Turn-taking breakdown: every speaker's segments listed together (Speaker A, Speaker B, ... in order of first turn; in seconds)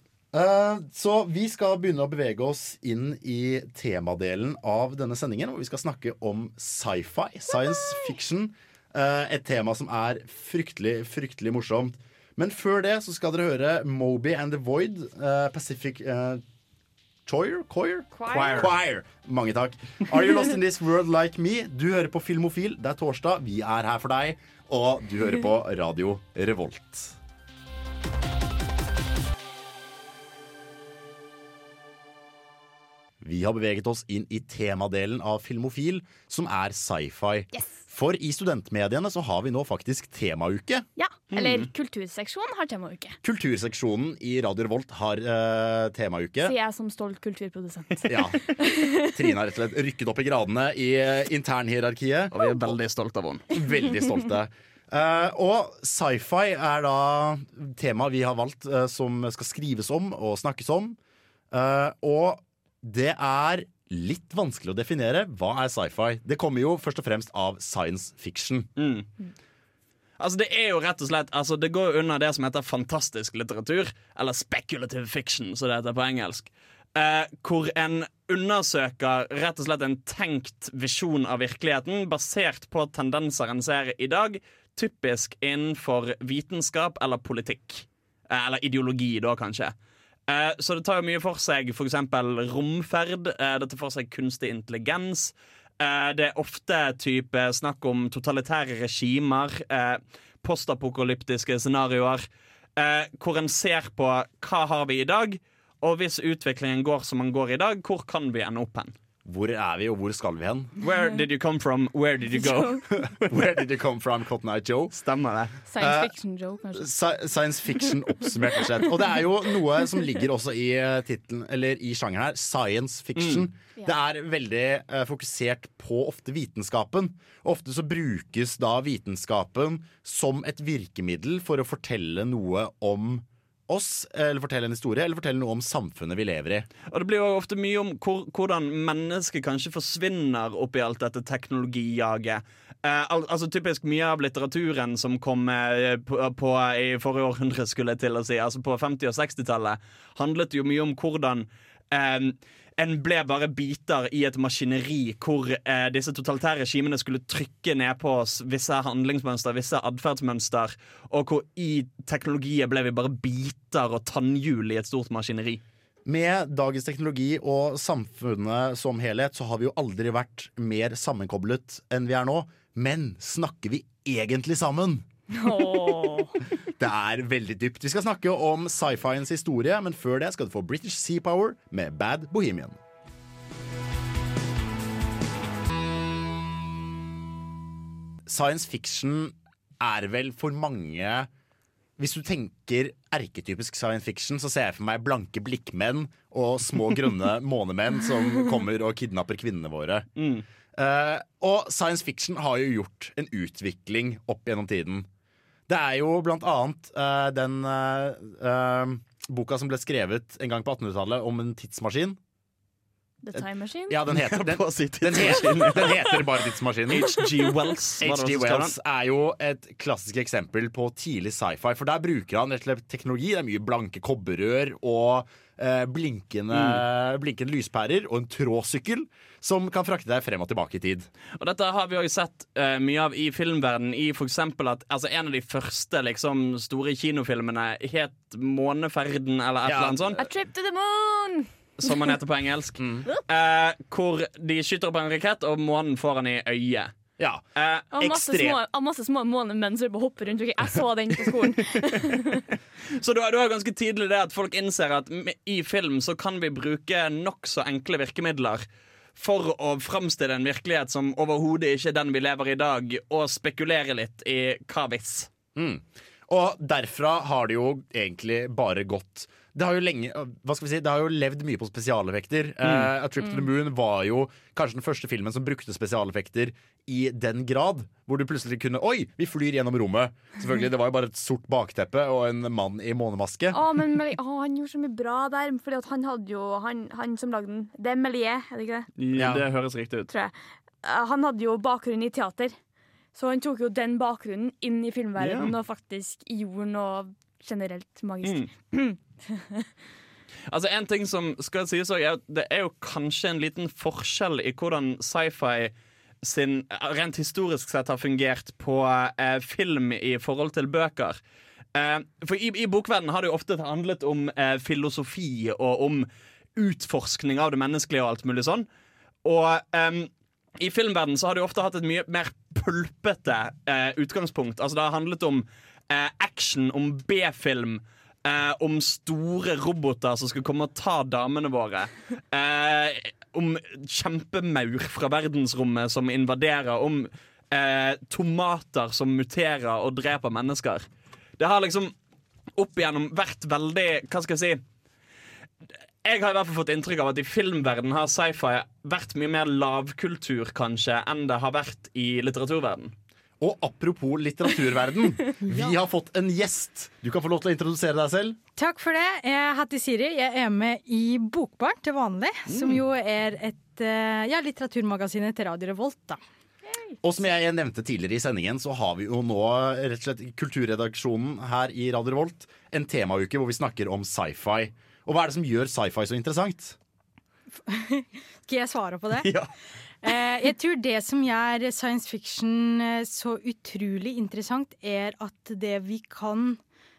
Speaker A: 0.3-16.4, 17.3-27.2, 33.2-40.9, 43.2-46.5, 48.1-48.4, 49.0-52.4, 53.5-61.0, 61.5-68.7, 109.2-110.7, 112.9-115.0, 115.8-116.2, 116.7-136.7, 166.1-175.1, 176.8-182.8, 188.3-191.3, 192.0-200.1, 200.7-205.1, 205.7-212.2, 213.3-217.2, 218.0-231.1, 239.6-240.2, 242.8-243.1, 247.2-248.6, 265.6-283.6, 289.1-289.4, 353.4-358.4, 367.0-376.8
Speaker B: 18.1-18.7, 41.0-43.2, 46.4-49.1, 112.4-112.8, 115.7-116.9, 175.3-176.4, 213.2-214.0, 240.2-241.9, 247.9-252.4, 283.5-288.9, 290.1-292.6, 293.1-299.7, 366.7-367.0
Speaker C: 41.3-41.7, 52.3-53.5, 68.8-69.1, 70.2-89.7, 90.3-102.2, 102.8-108.9, 110.8-112.8, 114.9-115.5, 123.2-123.5, 136.9-165.6, 200.2-200.4, 214.1-216.2, 216.9-218.7, 226.5-226.8, 231.4-240.2, 241.8-246.9, 247.6-247.9, 252.9-258.6, 259.2-265.3, 272.6-272.9, 289.0-290.1, 295.2-295.5, 298.2-298.5, 300.5-311.2, 311.8-318.7, 319.2-340.9, 341.4-341.9, 342.6-344.6, 346.0-352.9, 362.5-362.8, 379.2-379.5
Speaker D: 358.6-366.2, 377.7-379.3, 380.0-386.6